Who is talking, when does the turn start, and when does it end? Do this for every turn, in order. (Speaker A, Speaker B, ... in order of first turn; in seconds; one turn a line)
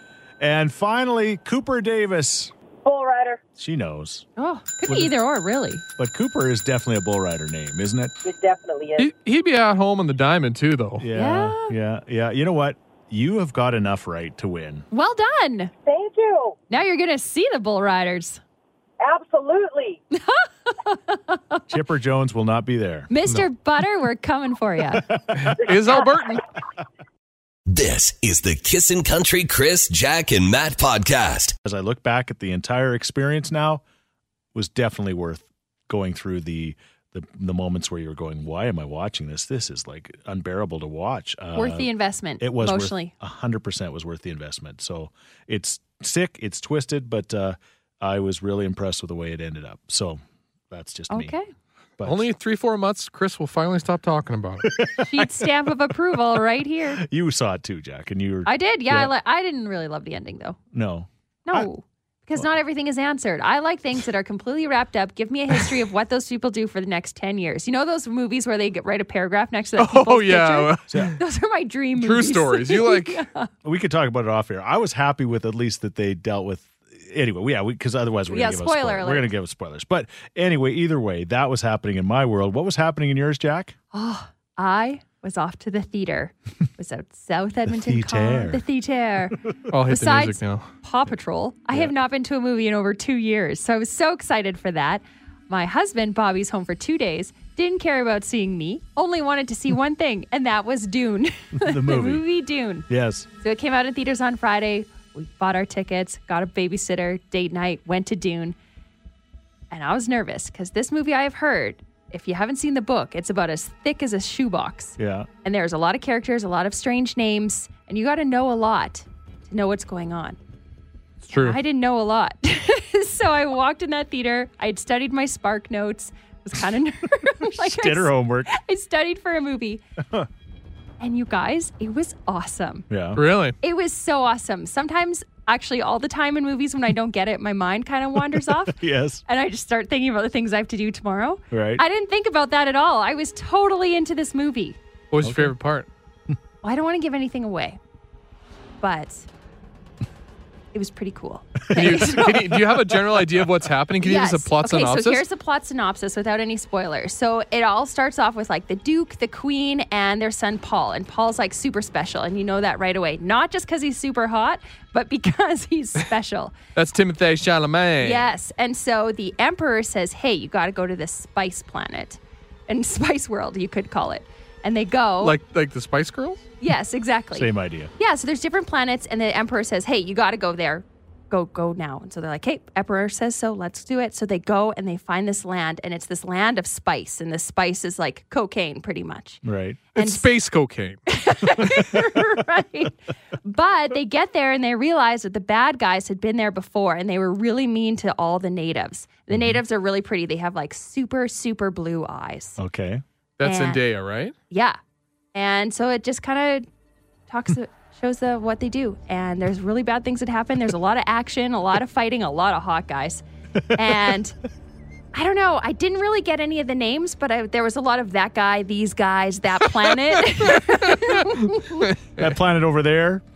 Speaker A: 0.4-2.5
Speaker B: 2.8-3.4
Speaker A: 3.6-4.3
Speaker C: 4.4-5.8
Speaker A: 4.9-5.2
Speaker A: 6.0-8.2
Speaker B: 8.2-9.1
Speaker D: 9.0-11.1
Speaker A: 11.0-14.9
Speaker C: 11.1-11.8
Speaker C: 14.9-15.7
Speaker B: 15.8-16.6
Speaker C: 16.7-18.4
Speaker B: 19.0-20.0
Speaker C: 20.1-21.6
Speaker A: 21.7-23.4
Speaker C: 23.1-25.1
Speaker A: 25.1-25.5
Speaker D: 25.3-26.4
Speaker E: 27.7-31.6
Speaker A: 31.6-33.8
Speaker A: 34.5-51.3
Speaker C: 41.5-43.1
Speaker C: 51.1-51.5
Speaker A: 52.0-52.3
Speaker D: 52.0-54.7
Speaker A: 54.6-55.6
Speaker C: 55.0-57.0
Speaker A: 57.0-59.1
Speaker C: 58.5-60.6
Speaker A: 60.7-61.7
Speaker C: 61.5-73.5
Speaker D: 69.8-71.2
Speaker A: 70.9-71.2
Speaker D: 72.0-73.2
Speaker A: 73.6-83.8
Speaker C: 78.3-79.3
Speaker C: 83.9-102.9
Speaker A: 87.7-88.6
Speaker D: 89.7-90.7
Speaker A: 101.6-102.2
Speaker A: 102.9-103.3
Speaker C: 103.4-108.6
Speaker C: 109.7-120.4
Speaker A: 115.0-115.3
Speaker D: 121.3-121.6
Speaker C: 121.3-129.8
Speaker A: 127.5-128.5
Speaker C: 131.0-132.9
Speaker A: 132.9-133.2
Speaker D: 133.2-133.6
Speaker C: 133.6-144.8
Speaker A: 138.2-139.2
Speaker A: 141.5-141.8
Speaker D: 145.1-145.9
Speaker A: 145.2-145.6
Speaker C: 146.6-147.8
Speaker C: 148.8-149.3
Speaker C: 150.7-152.6
Speaker A: 151.7-153.5
Speaker D: 151.7-155.2
Speaker C: 154.0-166.6
Speaker D: 166.8-168.2
Speaker C: 168.0-175.4
Speaker D: 175.2-176.5
Speaker C: 176.6-189.4
Speaker A: 177.3-177.9
Speaker A: 189.4-189.8
Speaker C: 190.0-190.3
Speaker D: 190.0-191.0
Speaker C: 191.1-202.6
Speaker A: 191.6-192.2
Speaker A: 199.3-199.6
Speaker A: 202.6-203.0
Speaker D: 203.4-204.3
Speaker C: 203.4-203.9
Speaker C: 204.5-204.8
Speaker C: 205.3-206.7
Speaker C: 207.3-214.4
Speaker A: 213.7-214.2
Speaker C: 215.1-221.9
Speaker D: 220.5-222.3
Speaker A: 222.2-223.2